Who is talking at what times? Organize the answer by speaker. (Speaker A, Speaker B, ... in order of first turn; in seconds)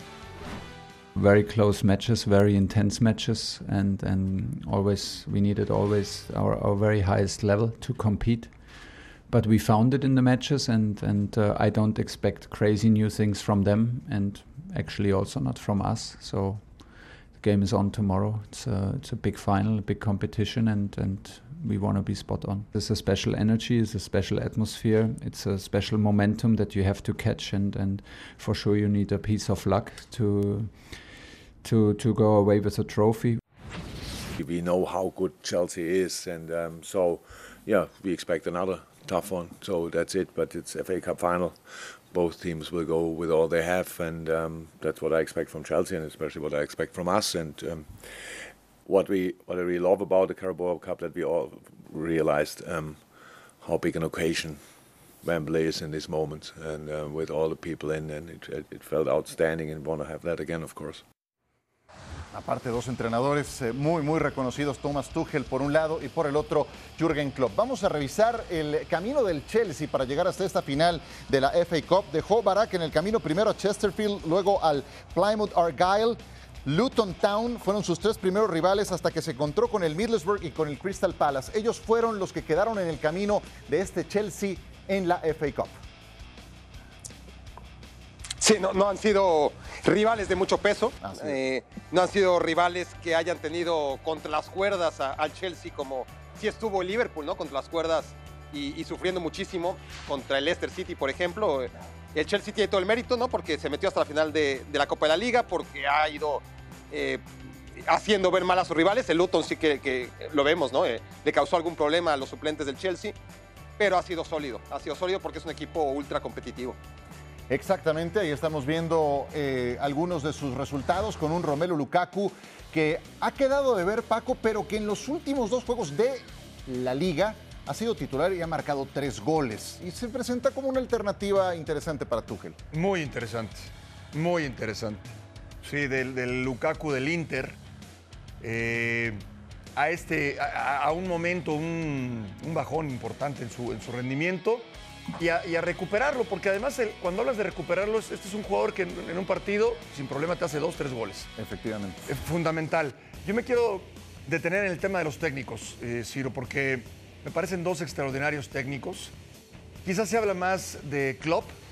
Speaker A: 1.1-33.4
Speaker B: 34.3-54.6, 55.2-61.0
Speaker C: 62.3-85.8, 91.0-91.4, 117.5-132.6, 151.4-152.1
Speaker D: 88.4-113.2, 113.8-116.8
Speaker E: 132.7-137.6, 138.4-139.2, 139.8-151.3, 152.1-159.1, 159.8-161.5